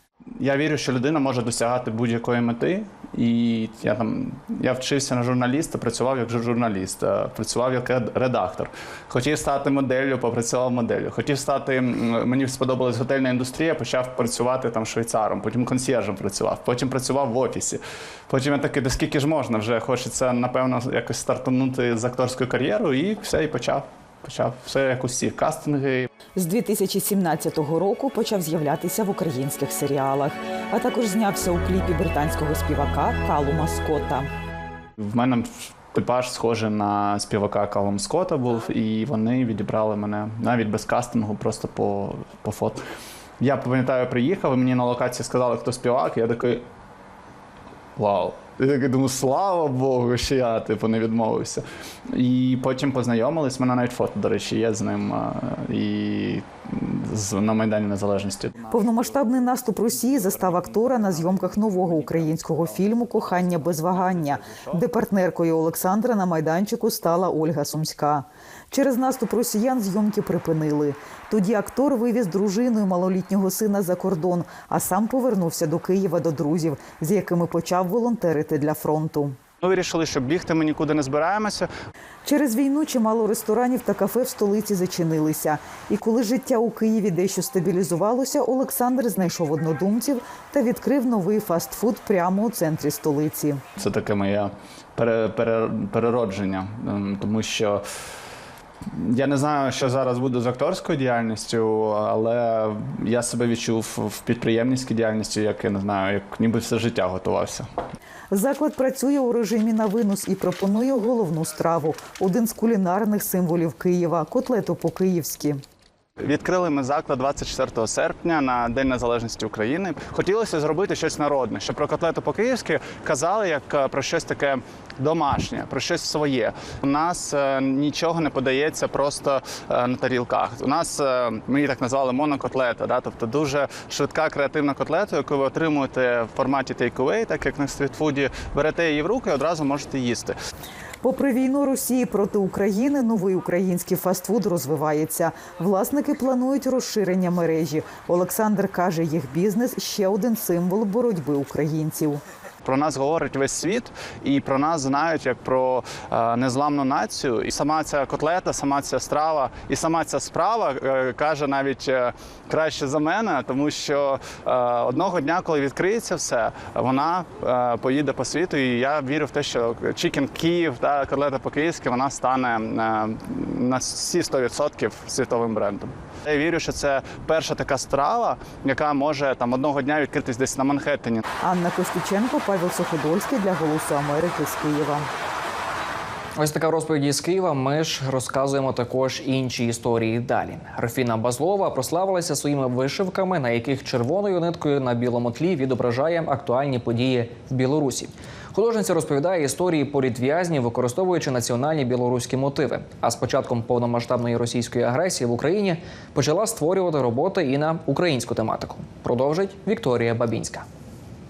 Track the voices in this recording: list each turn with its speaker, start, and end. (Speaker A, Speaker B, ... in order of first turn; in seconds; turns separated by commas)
Speaker A: 0.4-26.1, Speaker B: 26.4-34.3, Speaker A: 35.0-42.8, Speaker A: 43.4-46.6, Speaker A: 48.0-58.7, Speaker B: 58.7-79.4, Speaker A: 79.6-81.7, Speaker B: 82.2-93.6, Speaker A: 93.8-97.8, Speaker A: 99.0-107.7, Speaker B: 108.3-115.6, Speaker A: 116.2-140.3, Speaker B: 141.0-152.2, Speaker A: 152.6-181.2, Speaker B: 181.4-185.1, Speaker C: 186.4-210.6